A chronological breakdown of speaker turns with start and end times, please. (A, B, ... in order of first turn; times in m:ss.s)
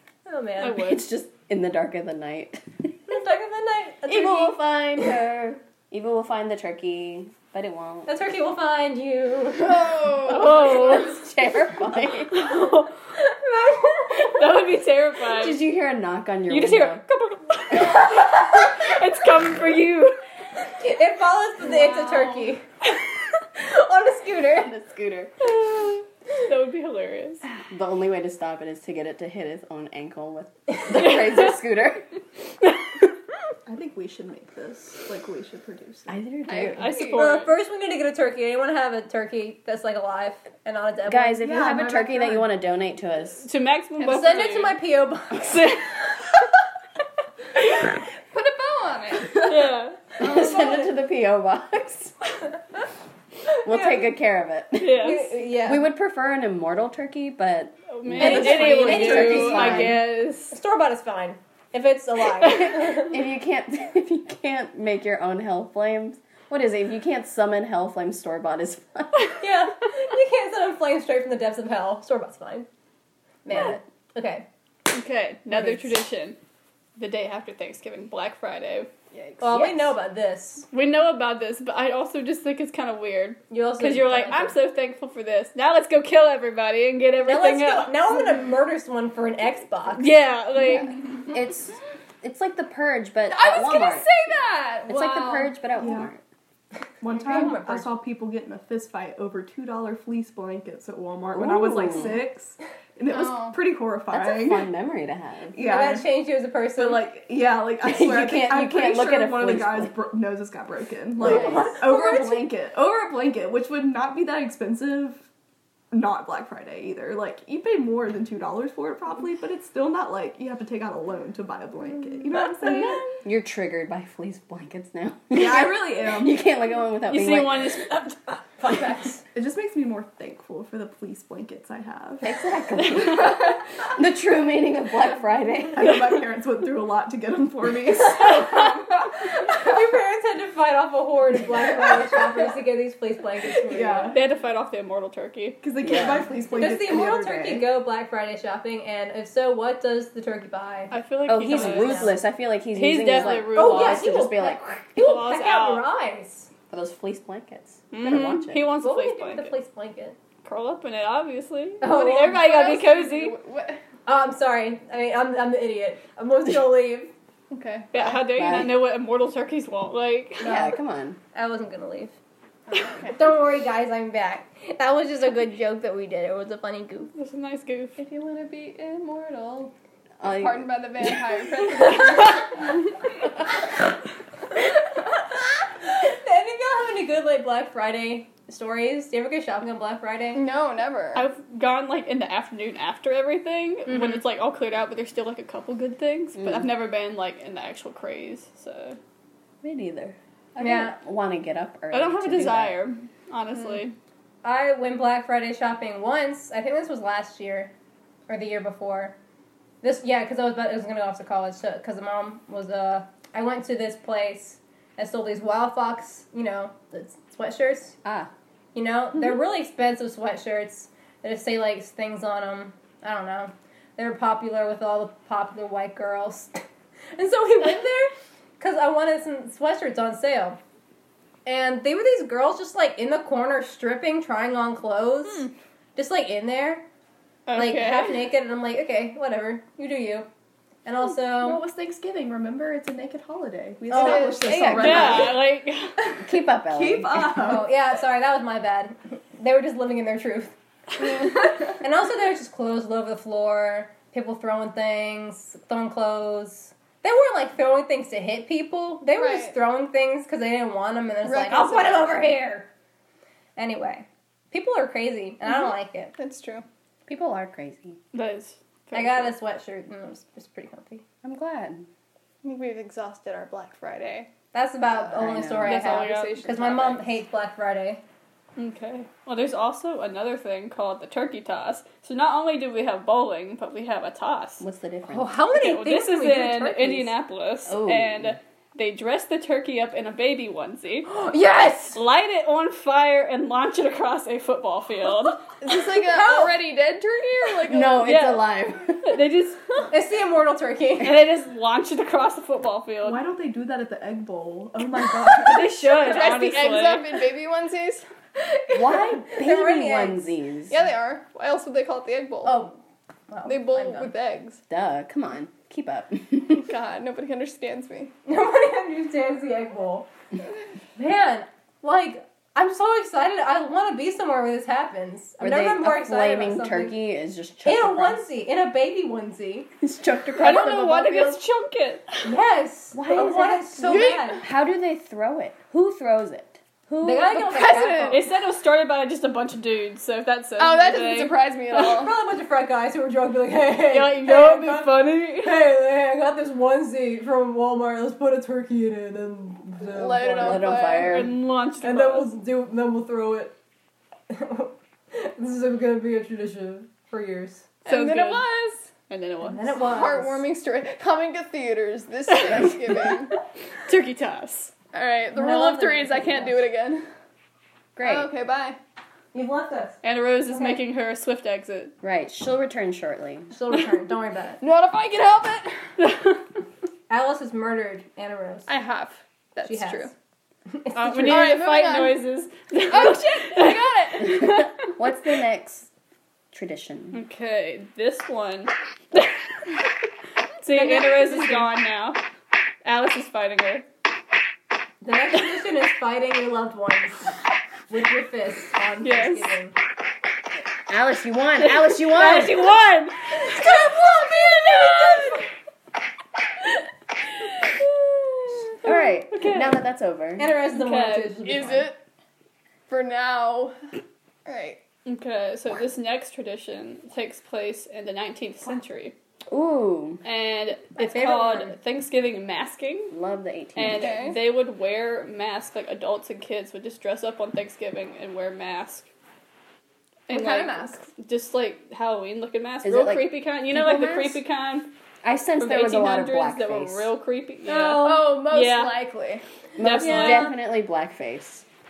0:00.3-0:00.8 A
0:00.6-0:01.0 B
0:00.8-0:02.9 C
0:03.1-0:05.2 A
0:04.1-0:08.1 C
0:08.1-0:10.1 A
0:09.6-0:11.1 D
0:10.2-0:11.1 B
0:10.4-0:12.5 C
0:12.3-0:13.0 B
0:13.2-0:14.5 A
0:14.3-0:15.6 B
0:15.4-0:17.0 C
0:16.5-0:20.2 B
0:20.8-0:22.7 A
0:21.6-0:22.5 D
0:23.6-0:24.7 A
0:24.5-0:25.3 C
0:26.5-0:27.4 B
0:27.7-0:32.1 C
0:30.9-0:31.5 B
0:33.7-0:36.2 E
0:36.1-0:36.9 C
0:36.5-0:37.5 B
0:36.5-0:37.2 D
0:37.0-0:41.4 A
0:41.1-0:43.5 C
0:41.4-0:42.5 E
0:43.4-0:44.8 B
0:44.0-0:44.4 D
0:44.0-0:46.0 A
0:45.4-0:46.0 B
0:48.3-0:49.5 D
0:49.4-0:50.0 B
0:50.2-0:52.2 C
0:50.2-0:50.9 A
0:53.6-1:00.0 C
0:53.7-0:54.1 A
0:54.8-0:55.3 B
0:54.9-0:55.9 A
0:57.9-1:00.5 B
0:58.2-1:03.2 A
0:58.9-0:59.6 E
1:03.0-1:09.3 C
1:09.4-1:12.7 A
1:13.4-1:14.4 A
1:14.9-1:16.4 B
1:15.6-1:15.8 A
1:17.0-1:18.9 B
1:19.4-1:20.7 A
1:19.5-1:19.9 C
1:20.7-1:28.1 B
1:23.5-1:24.6 A
1:27.2-1:30.1 A
1:30.0-1:30.9 B
1:31.3-1:34.1 C
1:33.3-1:35.6 D
1:34.9-1:36.2 C
1:35.8-1:36.1 E
1:37.0-1:44.7 E
1:37.1-1:37.9 A
1:41.3-1:42.2 C
1:43.1-1:43.6 D
1:44.1-1:45.6 C
1:45.6-1:46.0 E
1:45.6-1:47.1 A
1:46.8-1:55.3 E
1:47.8-1:50.0 C
1:51.2-1:52.5 C
1:51.3-1:51.6 A
1:55.9-2:03.0 E
2:03.0-2:07.8 C
2:05.3-2:06.4 E
2:07.1-2:08.8 B
2:08.6-2:09.1 A
2:09.3-2:12.3 E
2:12.2-2:16.1 C
2:12.8-2:13.5 B
2:15.7-2:18.8 E
2:19.5-2:24.2 A
2:23.7-2:24.2 E
2:24.1-2:25.6 B
2:25.6-2:27.7 E
2:25.8-2:26.2 C
2:26.5-2:32.2 A
2:30.9-2:32.2 B
2:31.3-2:34.6 C
2:32.7-2:34.1 B
2:33.2-2:36.5 A
2:35.0-2:35.9 B
2:36.7-2:38.7 C
2:37.9-2:39.5 B
2:38.8-2:40.2 A
2:40.4-2:43.4 B
2:41.8-2:42.5 A
2:41.9-2:43.8 D
2:44.1-2:47.1 A
2:47.5-2:47.9 D
2:47.9-2:50.6 B
2:48.2-2:48.9 C
2:50.4-2:51.2 C
2:50.4-2:50.8 A
2:51.3-2:52.2 A
2:52.7-2:53.2 D
2:53.1-2:57.1 A
2:57.2-2:58.0 B
2:58.0-3:02.6 D
3:00.2-3:01.0 C
3:05.9-3:10.4 A
3:10.3-3:11.3 D
3:11.2-3:19.0 B
3:13.9-3:14.2 A
3:16.4-3:16.6 C
3:19.6-3:20.2 C
3:20.6-3:21.0 A
3:20.7-3:22.8 C
3:21.9-3:24.0 B
3:24.4-3:27.7 A
3:28.3-3:29.2 A
3:29.8-3:38.0 A
3:38.0-3:38.3 C
3:38.8-3:46.6 A
3:47.2-3:50.6 A
3:51.4-3:56.9 A
3:57.5-3:58.2 B
3:57.5-4:00.3 A
4:00.8-4:01.6 A
4:01.4-4:05.4 E
4:03.9-4:04.8 A
4:03.9-4:05.3 D
4:04.5-4:05.2 C
4:04.7-4:06.2 B
4:06.2-4:07.5 C
4:06.6-4:07.7 E
4:07.4-4:22.7 A
4:19.2-4:19.6 D
4:21.2-4:22.2 D
4:23.6-4:26.1 A
4:26.2-4:26.7 D
4:27.1-4:28.0 C
4:28.1-4:29.4 B
4:28.9-4:31.0 A
4:31.2-4:31.9 C
4:32.4-4:34.3 D
4:34.5-4:38.0 A
4:35.0-4:35.9 C
4:35.6-4:36.4 B
4:35.7-4:37.1 D
4:38.6-4:44.6 B
4:44.6-4:45.4 C
4:45.1-4:47.1 A
4:45.5-4:51.1 B
4:47.7-4:48.4 C
4:51.3-4:52.0 A
4:51.9-4:55.4 B
4:55.6-4:58.1 D
4:55.9-4:56.6 A
4:57.7-4:59.2 C
4:58.0-4:59.8 B
4:59.9-5:01.3 A
5:01.0-5:03.2 B
5:03.0-5:05.8 E
5:05.4-5:07.2 B
5:05.8-5:08.1 D
5:08.7-5:10.8 C
5:08.9-5:10.3 A
5:10.7-5:12.7 D
5:12.4-5:12.8 A
5:13.3-5:14.1 A
5:13.5-5:14.6 D
5:14.7-5:16.7 C
5:16.5-5:18.1 D
5:18.3-5:20.1 A
5:21.0-5:27.0 A
5:25.4-5:28.2 C
5:27.6-5:29.7 A
5:29.8-5:31.4 C
5:30.4-5:32.3 B
5:32.2-5:34.4 A
5:32.9-5:37.4 C
5:33.8-5:34.4 D
5:37.0-5:38.3 A
5:37.3-5:38.3 D
5:38.1-5:41.9 B
5:40.6-5:42.1 D
5:41.7-5:50.9 A
5:43.9-5:45.6 B
5:49.9-5:51.2 D
5:50.4-5:51.4 C
5:51.0-5:52.3 B
5:51.8-5:53.6 A
5:54.3-5:57.7 A
5:57.9-5:58.5 B
5:57.9-5:58.9 D
5:59.1-5:59.8 B
5:59.4-6:00.5 A
5:59.8-6:03.4 D
6:02.3-6:03.2 B
6:03.9-6:04.7 B
6:04.9-6:07.0 D
6:05.3-6:06.6 A
6:08.0-6:08.3 C
6:08.0-6:08.8 D
6:09.3-6:10.8 A
6:10.0-6:12.0 B
6:12.0-6:13.5 C
6:13.5-6:14.6 A
6:14.6-6:15.9 D
6:16.0-6:16.4 B
6:17.1-6:18.7 A
6:18.7-6:20.1 D
6:19.6-6:20.1 A
6:20.7-6:21.6 A
6:20.9-6:25.0 B
6:21.2-6:22.3 D
6:22.9-6:24.5 D
6:24.4-6:25.9 C
6:26.5-6:27.2 C
6:27.1-6:29.8 B
6:30.6-6:32.2 B
6:30.7-6:31.7 A
6:32.8-6:33.9 B
6:35.0-6:37.3 A
6:37.9-6:39.8 A
6:39.0-6:39.5 B
6:40.9-6:42.8 C
6:41.6-6:43.8 B
6:43.5-6:45.4 D
6:43.6-6:45.2 A
6:47.8-6:49.8 B
6:48.8-6:50.6 C
6:50.4-6:51.9 A
6:50.7-6:51.4 B
6:51.4-6:52.0 D
6:52.9-6:53.8 D
6:54.5-6:54.8 D
6:55.1-6:59.1 B
6:59.5-7:00.2 C
7:00.2-7:03.2 B
7:01.0-7:01.8 A
7:03.1-7:04.2 C
7:03.8-7:09.1 B
7:03.9-7:04.4 D
7:10.3-7:11.0 D
7:10.3-7:14.9 B
7:12.8-7:14.4 C
7:15.2-7:17.1 C
7:15.6-7:19.1 B
7:17.7-7:19.4 D
7:19.8-7:21.6 C
7:19.8-7:20.6 B
7:20.1-7:20.5 A